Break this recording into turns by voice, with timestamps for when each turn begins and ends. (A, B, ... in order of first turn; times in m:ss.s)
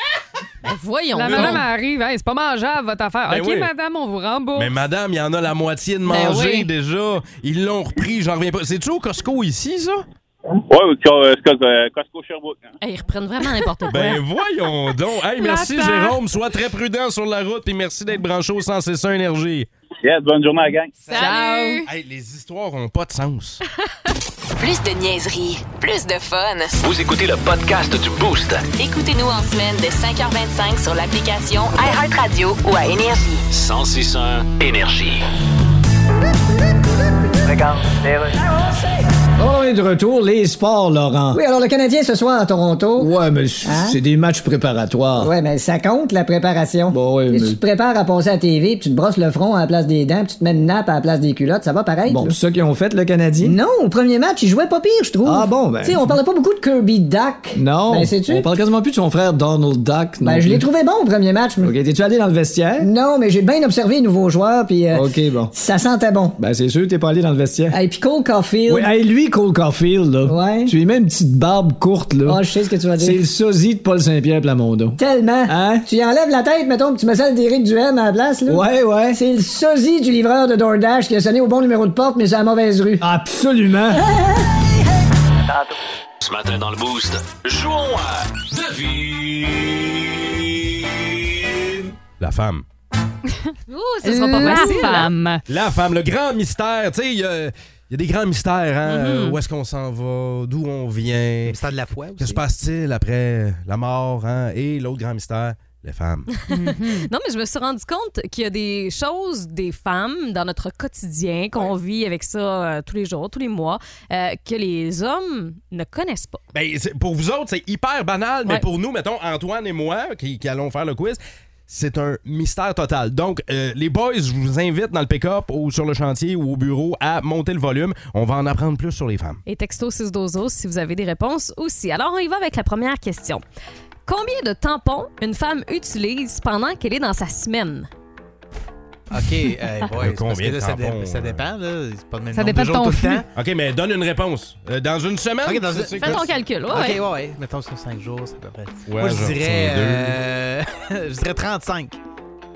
0:00.6-0:01.6 A
0:01.1-0:04.8 B
0:01.3-0:01.6 C
0:03.3-0:03.7 C
0:04.5-0:10.0 C
0:06.0-0:06.7 A
0:10.7-0:12.7 D
0:12.8-0:14.2 A
0:13.9-0:19.7 C
0:15.4-0:16.2 B
0:20.0-0:20.9 D
0:21.1-0:21.8 A
0:21.1-0:21.8 B
0:21.8-0:23.6 C
0:24.6-0:26.8 E
0:26.8-0:28.6 F
0:28.7-0:33.4 E
0:33.5-0:35.2 F
0:39.4-0:41.4 G
0:41.3-0:43.1 H
0:43.0-0:45.3 G
0:43.6-0:44.0 H
0:45.2-0:52.3 H
0:46.9-0:47.6 G
0:52.1-0:53.6 G
0:53.4-0:58.5 H
0:55.2-0:56.2 G
0:57.5-1:00.6 G
1:00.2-1:01.7 H
1:01.6-1:02.9 G
1:02.8-1:06.4 H
1:04.9-1:05.5 G
1:06.4-1:07.8 G
1:07.7-1:08.9 H
1:08.7-1:12.4 G
1:10.2-1:10.7 H
1:12.2-1:13.2 H
1:13.0-1:15.8 G
1:15.0-1:23.0 H
1:18.5-1:19.2 G
1:23.0-1:24.1 G
1:26.2-1:30.4 F
1:32.2-1:32.6 C
1:33.7-1:35.1 A
1:34.0-1:35.4 B
1:35.5-1:41.6 C
1:38.8-1:39.4 A
1:41.4-1:42.4 I
1:42.2-1:46.3 C
1:46.4-1:56.4 A
1:46.5-1:47.1 B
1:56.5-2:09.4 C
2:09.4-2:13.4 A
2:14.0-2:17.9 A
2:19.1-2:23.2 I
2:20.0-2:21.4 C
2:22.3-2:23.2 B
2:23.3-2:26.3 C
2:25.4-2:32.0 I
2:26.0-2:27.0 A
2:28.9-2:30.2 C